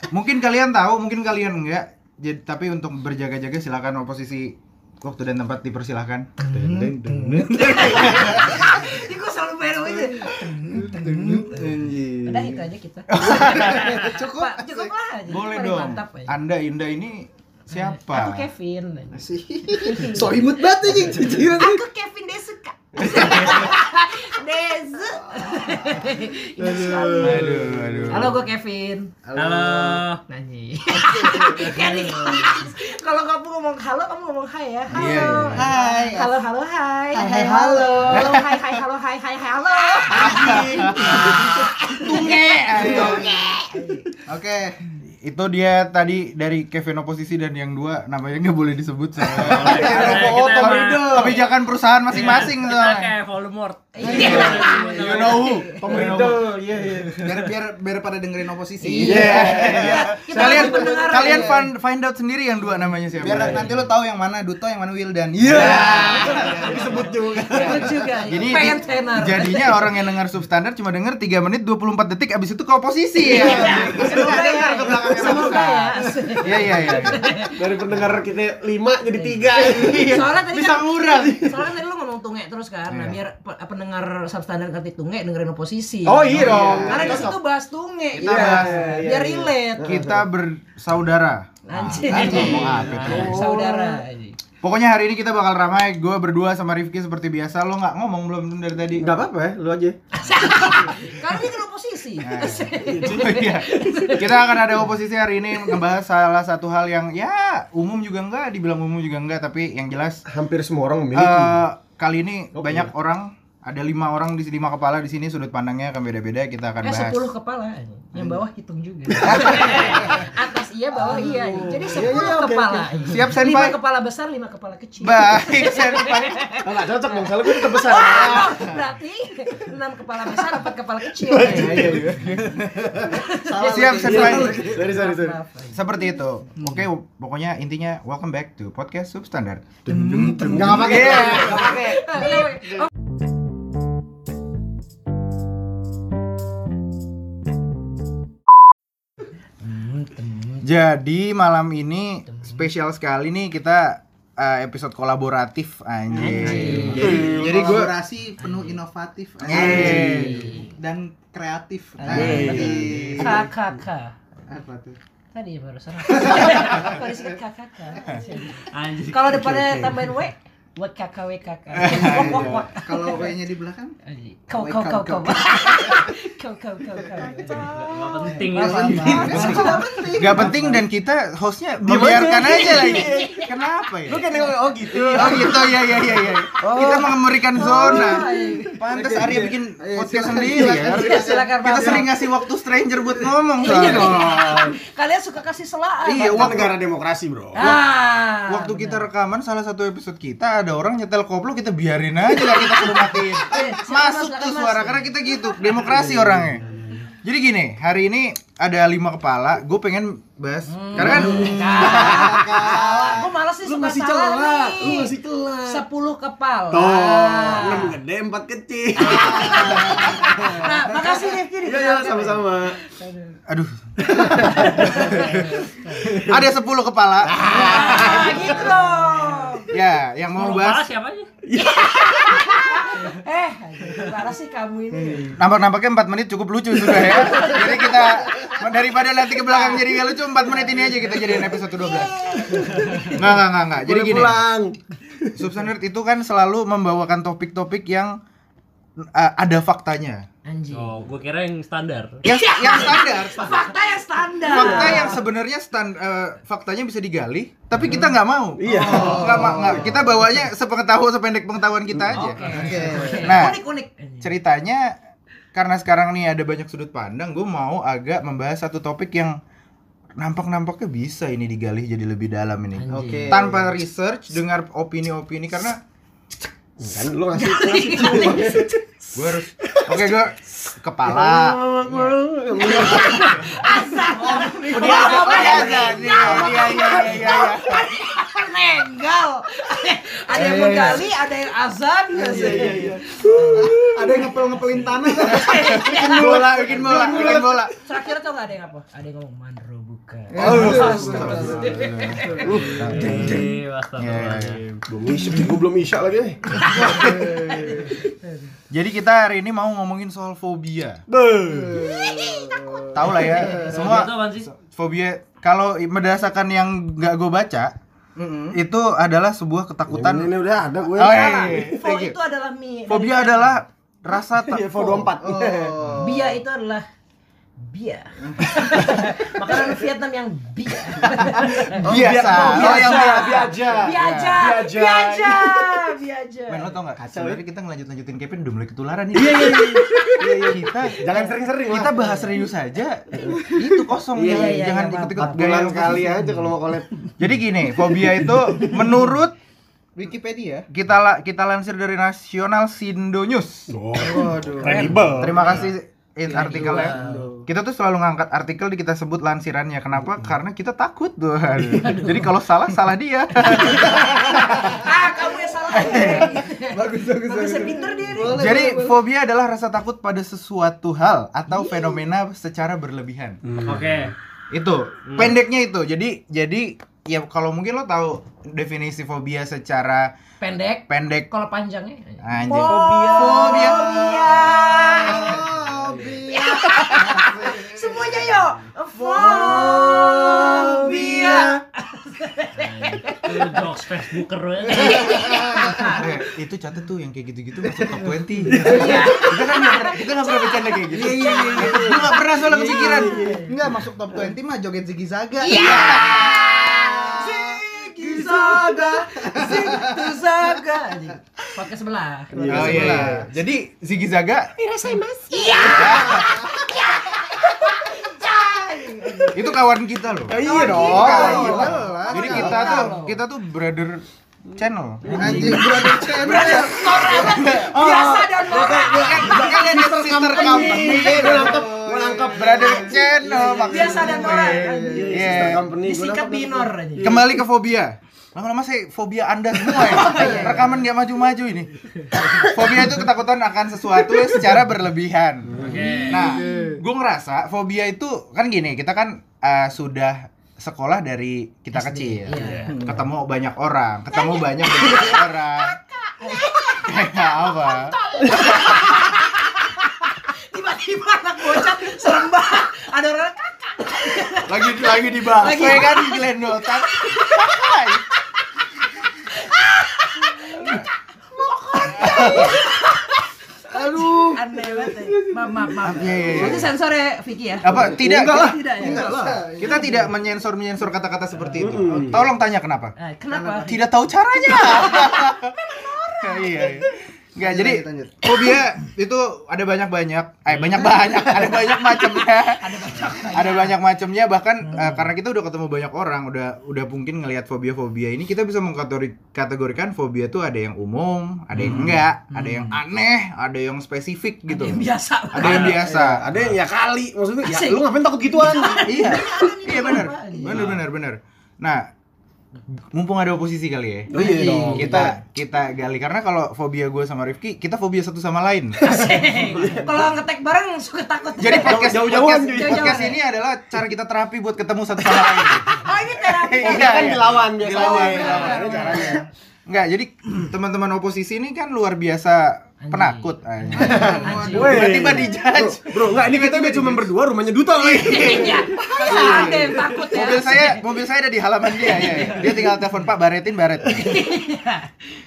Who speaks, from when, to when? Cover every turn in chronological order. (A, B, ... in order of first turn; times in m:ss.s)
0:00.1-0:08.8 A
0:06.4-0:11.7 B
0:09.8-0:12.6 C
0:12.2-0:16.4 B
0:13.1-0:13.9 A
0:13.2-0:14.9 C
0:15.3-0:18.5 A
0:17.7-0:20.3 B
0:19.1-0:21.8 C
0:21.3-0:29.1 B
0:23.0-0:23.6 C
0:26.6-0:28.1 D
0:27.2-0:28.4 A
0:29.2-0:30.0 C
0:29.4-0:30.2 E
0:30.3-0:44.1 B
0:31.0-0:32.6 C
0:34.9-0:35.9 A
0:34.9-0:36.3 C
0:37.1-0:38.4 C
0:38.1-0:38.6 A
0:40.1-0:42.0 D
0:40.1-0:43.3 A
0:40.2-0:41.2 C
0:42.8-0:43.3 C
0:44.3-0:44.8 C
0:45.0-0:53.1 A
0:49.4-0:51.4 C
0:49.5-0:51.5 E
0:50.2-0:50.5 D
0:52.1-0:55.6 E
0:54.0-0:55.8 B
0:54.0-0:54.8 C
0:54.1-0:56.5 A
0:54.2-0:54.7 D
0:55.8-0:57.5 D
0:57.2-1:01.6 C
0:58.8-1:01.5 D
0:58.9-1:01.6 B
0:59.0-1:03.7 A
1:03.2-1:03.7 D
1:03.2-1:07.0 C
1:05.4-1:08.2 D
1:05.5-1:06.7 A
1:05.8-1:06.6 B
1:07.3-1:10.0 B
1:07.5-1:17.2 A
1:13.3-1:17.7 B
1:13.3-1:16.2 D
1:13.5-1:15.2 C
1:17.5-1:20.2 D
1:19.2-1:30.1 B
1:19.6-1:21.5 A
1:21.2-1:21.5 D
1:22.9-1:23.2 A
1:26.0-1:27.4 D
1:26.3-1:27.2 A
1:26.5-1:27.2 C
1:28.2-1:29.0 A
1:28.2-1:30.2 D
1:29.8-1:33.4 A
1:31.7-1:34.4 B
1:32.0-1:34.0 D
1:32.8-1:33.3 E
1:34.6-1:39.1 A
1:39.0-1:40.0 D
1:40.2-1:44.8 B
1:42.2-1:50.2 A
1:42.8-1:43.4 D
1:50.3-1:51.6 D
1:51.1-1:57.2 A
1:52.6-1:52.9 D
1:56.8-2:12.2 B
1:59.1-1:59.5 D
1:59.2-2:00.1 A
2:00.9-2:03.1 D
2:03.1-2:03.8 A
2:05.0-2:06.5 A
2:06.6-2:08.7 D
2:11.1-2:12.4 D
2:11.4-2:14.7 A
2:11.8-2:12.9 C
2:13.0-2:15.4 D
2:13.0-2:16.0 B
2:13.5-2:14.7 C
2:15.7-2:22.0 A
2:19.9-2:22.6 D
2:21.4-2:22.9 B
2:29.6-2:30.6 B
2:30.6-2:38.0 A
2:32.3-2:32.6 B
2:36.1-2:37.3 B
2:36.3-2:37.8 D
2:36.4-2:43.5 C
2:38.4-2:38.8 B
2:39.4-2:40.4 A
2:39.5-2:40.6 D
2:39.5-2:40.7 B
2:42.1-2:43.4 D
2:42.1-2:43.4 A
2:42.1-2:44.2 B
2:42.9-2:43.2 E
2:44.5-2:45.0 C
2:45.3-2:53.4 B
2:48.0-2:48.3 A
2:48.7-2:49.4 E
2:49.2-2:50.2 D
2:51.7-2:52.6 A
2:51.8-2:54.0 C
2:54.0-3:00.1 B
2:54.5-2:56.2 C
2:57.2-3:00.6 C
2:57.5-2:59.7 E
2:59.1-3:14.7 A
2:59.3-3:00.8 D
3:01.8-3:03.5 D
3:02.4-3:03.5 B
3:04.1-3:07.0 D
3:06.6-3:08.8 B
3:08.0-3:09.5 D
3:08.9-3:12.1 C
3:10.7-3:12.2 B
3:13.6-3:16.7 B
3:13.7-3:14.6 C
3:16.0-3:16.8 A
3:16.2-3:17.7 D
3:17.6-3:19.1 B
3:17.6-3:17.8 A
3:18.5-3:26.6 A
3:22.4-3:25.6 B
3:25.7-3:27.0 D
3:27.2-3:33.2 A
3:30.7-3:38.0 B
3:31.0-3:32.8 D
3:31.7-3:33.3 C
3:33.6-3:35.8 D
3:36.7-3:42.8 D
3:39.0-3:43.4 B
3:39.4-3:39.7 C
3:43.5-3:45.3 A
3:44.0-3:45.5 D
3:44.4-3:46.1 B
3:46.0-3:46.4 D
3:46.1-3:48.5 A
3:47.3-3:49.6 D
3:47.4-3:49.7 B
3:48.1-3:48.8 C
3:49.7-3:50.9 A
3:50.3-3:51.3 E
3:51.5-3:52.8 D
3:51.7-3:55.4 B
3:54.9-3:55.4 D
3:55.4-4:02.4 A
3:57.3-3:58.0 B
4:00.6-4:03.2 B
4:02.5-4:05.4 D
4:03.1-4:04.4 A
4:05.3-4:08.2 A
4:09.0-4:10.2 A
4:10.4-4:11.0 B
4:10.7-4:12.2 E
4:12.2-4:13.7 A
4:12.2-4:15.2 B
4:14.4-4:23.6 A
4:14.5-4:15.0 D
4:18.6-4:20.1 D
4:18.7-4:19.9 C
4:18.8-4:19.3 B
4:22.1-4:24.3 B
4:22.4-4:23.5 C
4:24.2-4:25.0 A
4:25.5-4:29.4 A
4:30.2-4:35.8 A
4:32.8-4:33.4 B
4:32.9-4:33.4 C
4:33.0-4:33.7 D
4:36.8-4:38.8 D
4:37.3-4:38.8 B
4:39.1-4:41.6 A
4:39.6-4:40.2 D
4:41.0-4:43.6 D
4:41.8-4:53.8 B
4:44.2-4:46.2 C
4:44.7-4:47.2 D
4:44.7-4:47.9 A
4:50.4-4:51.0 C
4:50.5-4:51.0 D
4:52.1-4:57.4 C
4:52.3-4:54.4 D
4:54.8-4:56.8 B
4:55.4-4:57.7 A
4:55.9-4:57.7 D
4:57.8-5:02.6 B
5:00.3-5:01.8 C
5:00.4-5:01.7 D
5:00.4-5:04.6 A
5:02.4-5:03.5 D
5:02.5-5:04.8 E
5:04.9-5:07.9 D
5:06.6-5:08.5 B
5:08.7-5:11.0 A
5:11.1-5:13.5 D
5:11.7-5:13.7 B
5:12.9-5:17.7 A
5:13.7-5:14.5 E
5:18.2-5:18.6 C
5:18.5-5:20.3 A
5:19.9-5:21.6 D
5:20.8-5:22.2 A
5:21.0-5:23.6 B
5:22.9-5:25.1 A
5:24.5-5:25.8 D
5:25.2-5:26.4 C
5:26.0-5:26.8 B
5:27.6-5:36.8 B
5:28.2-5:29.0 C
5:31.7-5:35.9 D
5:31.8-5:34.5 A
5:31.9-5:33.5 C
5:36.5-5:46.3 A
5:37.0-5:37.4 D
5:39.1-5:42.1 D
5:39.8-5:40.5 B
5:41.9-5:42.4 B
5:43.2-5:43.5 B
5:43.2-5:44.6 D
5:44.2-5:45.7 B
5:45.2-5:47.1 D
5:47.2-5:49.3 A
5:47.8-5:48.9 B
5:50.0-5:50.7 C
5:50.7-5:53.7 A
5:53.7-5:55.6 D
5:54.0-5:55.6 C
5:54.6-5:55.4 E
5:54.8-6:04.6 A
5:56.2-5:57.5 C
5:56.6-5:57.0 E
6:03.6-6:09.0 C
6:03.7-6:04.0 B
6:04.6-6:08.7 B
6:05.8-6:06.3 A
6:08.3-6:13.4 A
6:11.5-6:12.0 B
6:13.4-6:13.9 D
6:13.6-6:14.1 E
6:14.5-6:20.1 A
6:15.1-6:15.4 E
6:20.4-6:25.4 B
6:20.9-6:21.3 A
6:22.2-6:25.4 A
6:22.5-6:23.8 D
6:23.4-6:28.1 C
6:25.8-6:26.2 D
6:26.3-6:33.7 B
6:29.0-6:31.6 C
6:32.5-6:35.4 E
6:34.6-6:36.1 B
6:34.7-6:36.0 C
6:35.9-6:43.3 A
6:38.5-6:42.2 B
6:38.6-6:38.9 D
6:38.7-6:39.1 C
6:40.9-6:42.1 C
6:41.2-6:43.5 D
6:42.8-6:43.5 B
6:43.4-6:50.7 C
6:45.4-6:52.9 B
6:45.5-6:46.3 A
6:52.3-6:53.3 D
6:52.4-6:53.2 C
6:52.4-6:54.5 A
6:54.6-6:59.6 B
6:54.7-6:55.1 D
6:55.5-6:56.4 A
6:55.8-6:56.3 C
6:59.3-7:05.7 A
7:00.3-7:02.9 D
7:00.4-7:03.2 B
7:00.4-7:03.0 C
7:05.0-7:11.3 B
7:05.1-7:06.7 D
7:05.1-7:07.4 C
7:06.4-7:15.6 A
7:08.1-7:17.4 D
7:09.0-7:09.4 C
7:10.7-7:12.8 C
7:13.7-7:17.2 B
7:13.8-7:15.5 C
7:17.0-7:35.8 A
7:19.6-7:20.8 B
7:20.2-7:20.5 C
7:25.5-7:26.1 D
7:25.6-7:26.3 E
7:25.6-7:26.7 B
7:26.1-7:26.8 C
7:31.7-7:32.8 B
7:32.7-7:33.0 C
7:34.1-7:47.9 B
7:36.7-7:38.0 A
7:44.5-7:48.0 A
7:49.1-7:53.3 B
7:50.4-7:50.9 A
7:52.0-7:52.6 A
7:53.7-7:54.4 C
7:54.1-7:56.7 D
7:54.3-7:59.9 B
7:55.8-7:56.7 A
7:57.6-8:03.0 A
7:57.6-7:59.5 D
7:58.7-8:00.1 C
8:01.5-8:02.2 D
8:03.0-8:06.9 B
8:03.3-8:03.6 C
8:03.6-8:26.3 A
8:07.4-8:08.2 C
8:10.7-8:13.8 B
8:14.7-8:15.0 B
8:21.6-8:21.9 D
8:22.3-8:22.8 B
8:24.5-8:25.8 B
8:25.4-8:28.9 D
8:25.4-8:25.8 E
8:27.4-8:30.6 B
8:28.8-8:31.9 A
8:30.4-8:30.8 D
8:32.9-8:34.1 A
8:34.1-8:35.2 D
8:34.1-8:35.2 B
8:34.7-8:38.8 A
8:38.8-8:43.2 B
8:39.0-8:40.1 D
8:41.4-8:57.1 A
8:41.5-8:43.1 D
8:45.3-8:49.3 B
8:46.6-8:49.2 D
8:52.8-8:55.1 B
8:53.8-8:55.1 C
8:53.8-8:59.8 D
8:57.8-9:04.3 A
8:57.9-9:00.8 B
9:01.8-9:02.7 B
9:03.9-9:04.9 B